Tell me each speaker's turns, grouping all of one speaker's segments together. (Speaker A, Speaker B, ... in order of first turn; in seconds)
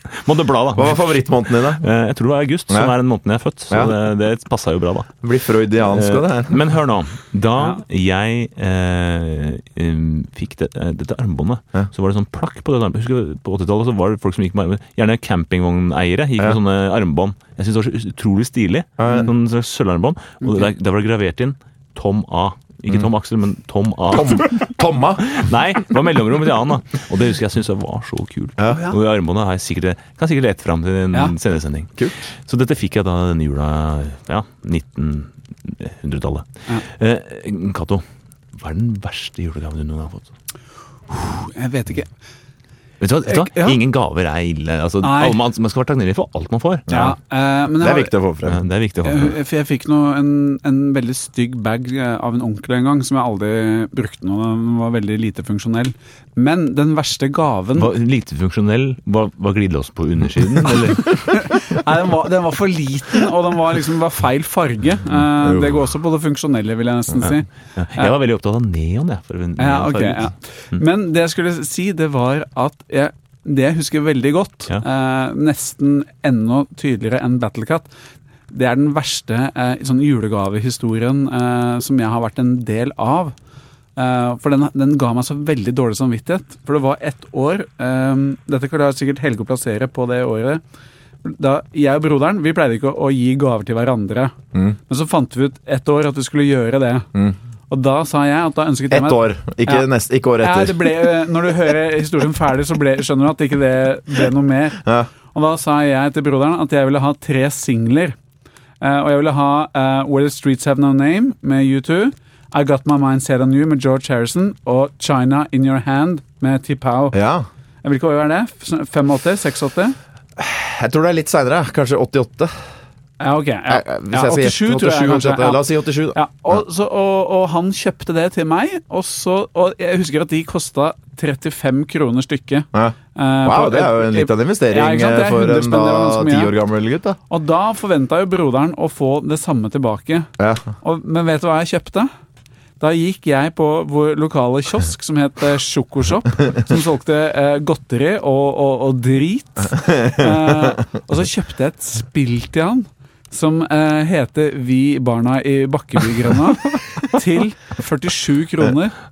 Speaker A: 0.2-5.2, 5.9-24.6, 25.2-31.9, 32.5-38.0, 38.5-40.3, 43.0-47.1, 48.5-49.4, 57.8-61.4, 67.2-70.8
Speaker B: 0.8-1.8, 5.2-6.6, 19.0-19.3, 24.1-25.3, 32.0-32.2, 46.9-47.2, 47.8-48.6, 65.4-65.8, 98.9-101.1, 117.1-117.5, 120.4-122.5, 123.7-126.6, 132.7-137.2, 140.4-140.7, 149.8-150.8
Speaker C: 41.1-42.1, 43.3-43.8, 45.0-45.4, 46.9-48.1, 49.0-57.9, 61.2-68.1, 69.6-77.9, 78.5-83.3, 84.0-90.6, 91.2-94.3, 94.9-97.1, 97.7-99.9, 100.4-108.2, 108.8-117.2, 117.8-120.0, 123.2-136.5, 137.3-140.3, 140.8-142.1, 142.8-159.0